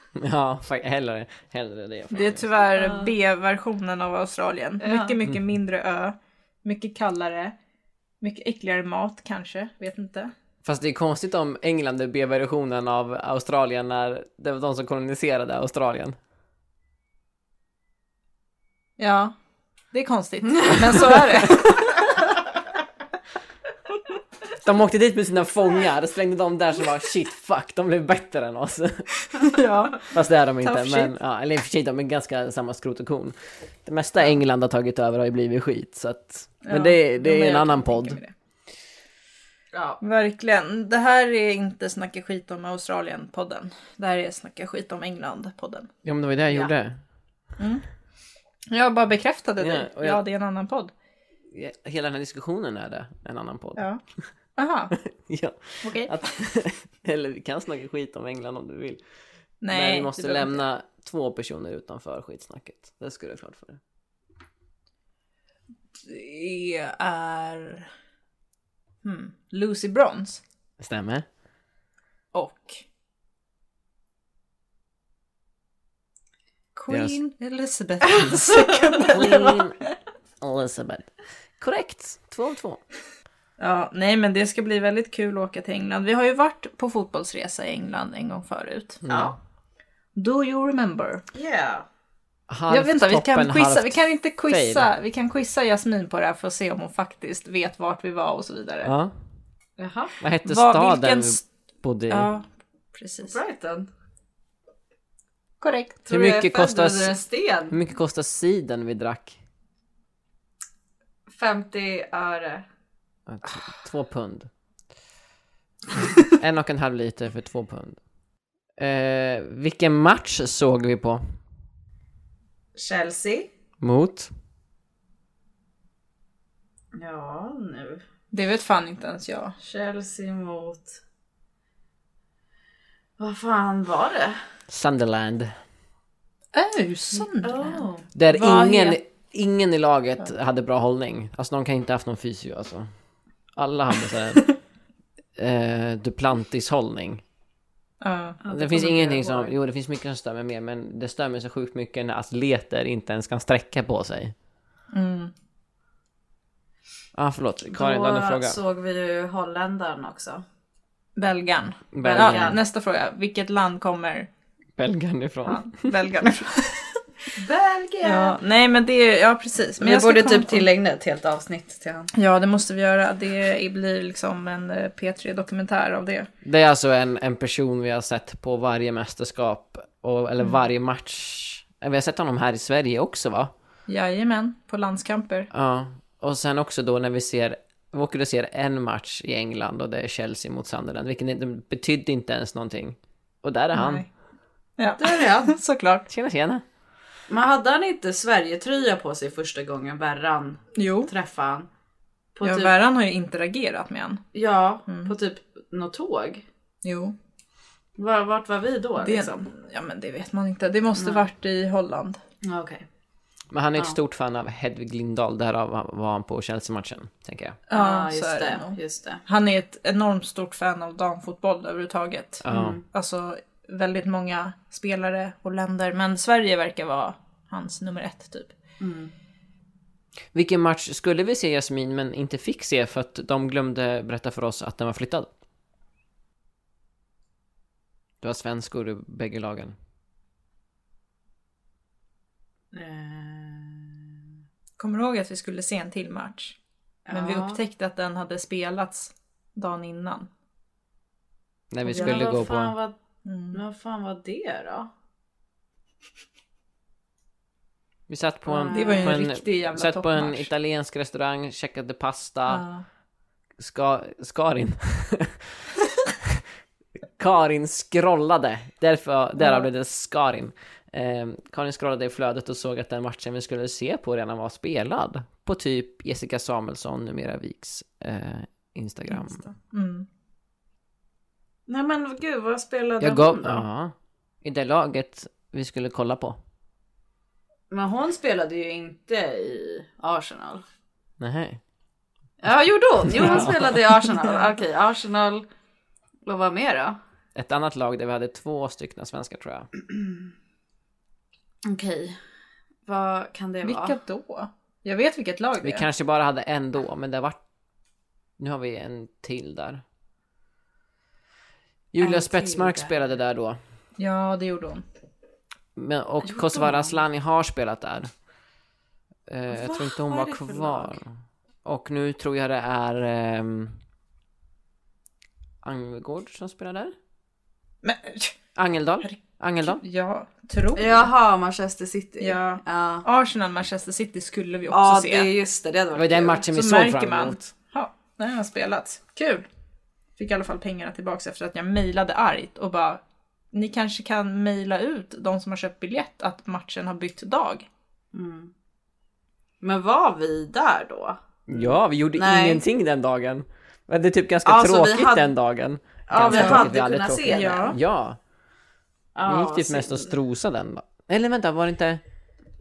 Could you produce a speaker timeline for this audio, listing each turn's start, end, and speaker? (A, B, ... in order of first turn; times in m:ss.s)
0:00.2-0:02.4 A
0:02.1-0:07.6 B
0:02.8-0:03.1 C
0:04.8-0:05.1 C
0:08.2-0:10.3 B
0:10.6-0:16.2 A
0:19.0-0:19.3 B
0:19.9-0:22.1 B
0:24.6-0:29.1 A
0:29.4-0:31.1 B
0:30.0-0:38.2 A
0:36.6-0:38.3 B
0:39.7-0:40.0 C
0:40.0-0:45.9 B
0:46.0-0:47.0 A
0:47.6-0:47.8 B
0:48.7-0:50.9 B
0:49.6-0:50.2 A
0:51.5-0:53.8 A
0:54.6-0:54.9 B
0:55.0-0:59.0 A
0:55.8-0:56.2 B
0:59.6-1:00.6 B
0:59.7-1:03.8 A
1:06.0-1:07.9 B
1:09.0-1:10.4 B
1:10.8-1:11.2 A
1:12.3-1:12.8 B
1:16.7-1:19.6 B
1:16.9-1:17.2 A
1:19.0-1:19.8 A
1:20.4-1:22.8 A
1:23.6-1:29.0 B
1:29.0-1:29.4 A
1:29.1-1:29.4 C
1:30.1-1:31.2 B
1:31.3-1:31.9 C
1:32.5-1:34.9 A
1:32.7-1:38.9 B
1:38.8-1:39.2 A
1:39.8-1:40.1 C
1:40.2-1:42.3 A
1:40.4-1:41.4 B
1:42.1-1:43.4 B
1:43.2-1:43.9 C
1:45.6-1:46.0 B
1:46.1-1:47.8 C
1:46.1-1:47.2 A
1:47.7-1:49.4 A
1:51.3-1:52.6 C
1:53.3-1:54.5 A
1:56.2-1:58.0 A
1:58.8-2:01.4 A
2:02.7-2:03.5 C
2:03.8-2:04.3 A
2:06.9-2:08.0 C
2:08.3-2:09.6 B
2:09.6-2:11.0 C
2:13.2-2:14.4 C
2:14.7-2:15.5 A
2:16.5-2:19.0 B
2:17.4-2:18.1 C
2:18.1-2:22.9 A
2:23.6-2:24.5 A
2:25.4-2:27.2 A
2:28.0-2:28.4 B
2:28.4-2:29.5 C
2:28.5-2:34.4 A
2:34.9-2:35.3 B
2:37.1-2:38.6 A
2:37.7-2:40.4 C
2:41.2-2:44.3 B
2:41.9-2:42.6 A
2:42.0-2:42.6 C
2:44.8-2:45.9 A
2:45.4-2:47.0 B
2:47.4-2:48.4 C
2:48.0-2:50.6 B
2:49.8-2:52.1 C
2:52.1-2:56.3 B
2:56.4-3:03.5 A
3:03.9-3:05.5 B
3:05.5-3:14.1 A
3:13.7-3:14.1 B
3:14.8-3:16.1 B
3:15.0-3:15.5 C
3:16.1-3:16.6 A
3:17.3-3:21.7 C
3:20.7-3:21.1 B
3:22.4-3:22.7 C
3:22.4-3:24.2 B
3:24.3-3:26.4 C
3:24.9-3:25.1 B
3:26.8-3:27.1 B
3:28.0-3:29.5 C
3:29.0-3:32.2 B
3:31.0-3:31.3 C
3:32.4-3:32.8 C
3:33.5-3:37.6 A
3:37.7-3:48.6 B
3:37.7-3:39.2 C
3:42.4-3:42.8 A
3:42.5-3:42.8 C
3:48.8-3:49.1 C
3:50.3-3:55.3 A
3:58.2-3:59.8 A
4:02.7-4:04.1 C
4:04.8-4:06.6 B
4:07.1-4:07.6 C
4:07.1-4:10.3 B
4:11.7-4:12.7 A
4:11.9-4:12.2 B
4:11.9-4:13.0 C
4:13.2-4:13.6 B
4:13.5-4:14.9 C
4:18.1-4:22.6 A
4:18.5-4:19.2 C
4:18.6-4:20.5 B
4:22.5-4:22.8 B
4:23.6-4:25.7 A
4:26.2-4:26.4 A
4:27.2-4:39.4 A
4:39.1-4:40.1 B
4:41.7-4:43.6 C
4:43.0-4:46.4 A
4:47.7-4:50.6 C
4:51.2-4:51.6 A
4:52.4-4:55.4 C
4:53.2-4:53.7 A
4:56.2-4:57.0 C
4:57.4-4:59.7 A
5:01.6-5:02.2 C
5:02.9-5:04.0 C
5:03.6-5:05.9 B
5:05.6-5:07.4 A
5:08.4-5:09.8 A
5:11.9-5:13.6 A
5:12.0-5:12.9 C
5:14.0-5:14.8 B
5:15.8-5:18.1 A
5:16.3-5:16.9 C
5:19.3-5:23.8 A
5:19.6-5:20.9 C
5:25.6-5:26.9 A
5:27.8-5:28.4 B
5:28.6-5:29.8 A
5:29.0-5:31.1 B
5:30.7-5:33.0 C
5:32.2-5:35.3 B
5:34.7-5:36.5 C
5:35.9-5:37.5 A
5:36.5-5:39.5 B
5:40.2-5:47.7 B
5:48.1-5:48.5 C
5:49.6-5:52.6 C
5:51.5-5:58.2 A
5:54.4-5:55.3 C
5:56.1-5:57.7 C
5:56.3-5:56.7 B
5:57.2-5:57.8 B
5:59.2-6:00.1 C
5:59.2-6:02.0 A